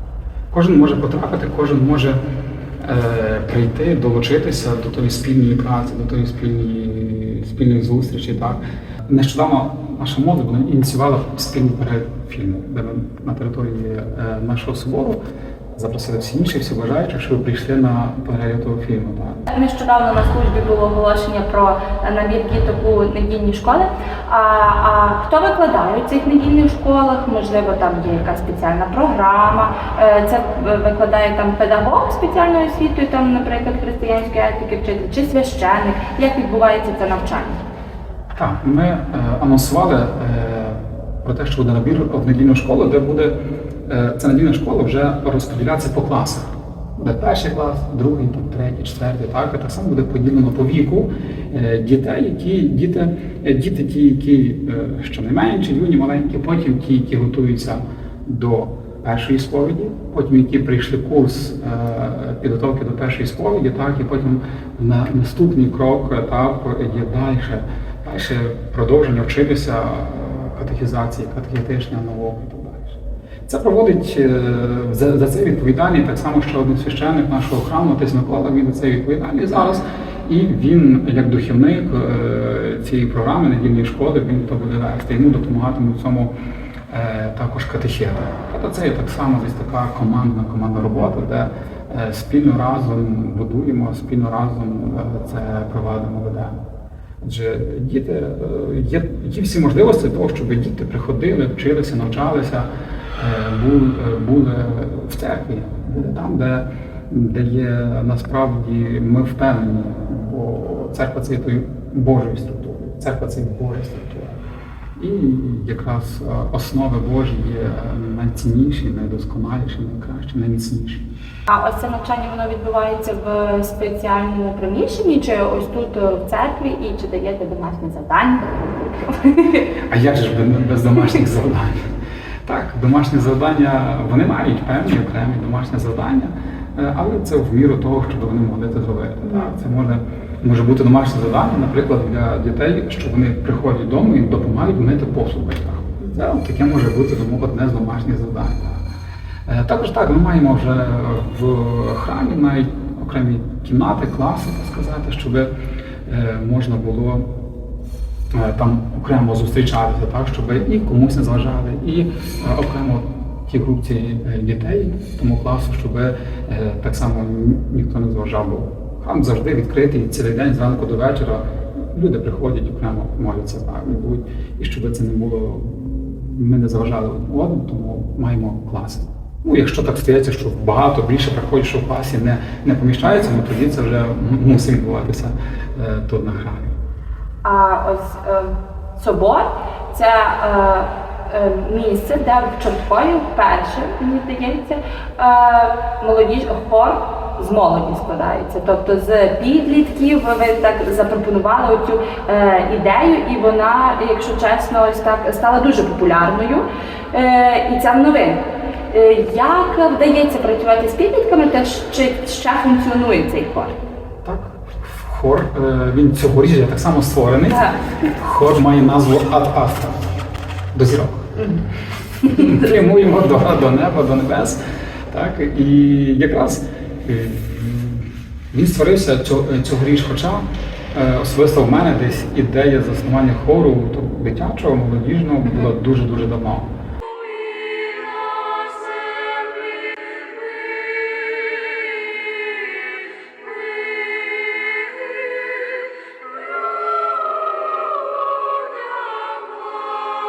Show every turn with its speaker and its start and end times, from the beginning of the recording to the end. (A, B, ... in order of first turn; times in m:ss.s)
0:00.5-0:02.2 A
0:02.8-0:15.2 A
0:15.7-0:19.4 A
0:19.5-0:37.6 B
0:38.3-1:26.3 A
1:26.9-1:36.6 A
1:37.2-1:54.4 A
1:55.0-2:01.0 A
2:01.5-2:09.7 B
2:09.8-2:11.9 A
2:12.4-2:28.8 A
2:29.4-2:35.5 A
2:36.0-2:37.2 A
2:38.3-3:06.8 A
3:07.4-3:33.8 B
3:34.2-3:40.0 A
3:37.5-3:37.8 B
3:40.7-3:41.3 A
3:42.2-3:42.7 B
3:42.2-3:56.7 A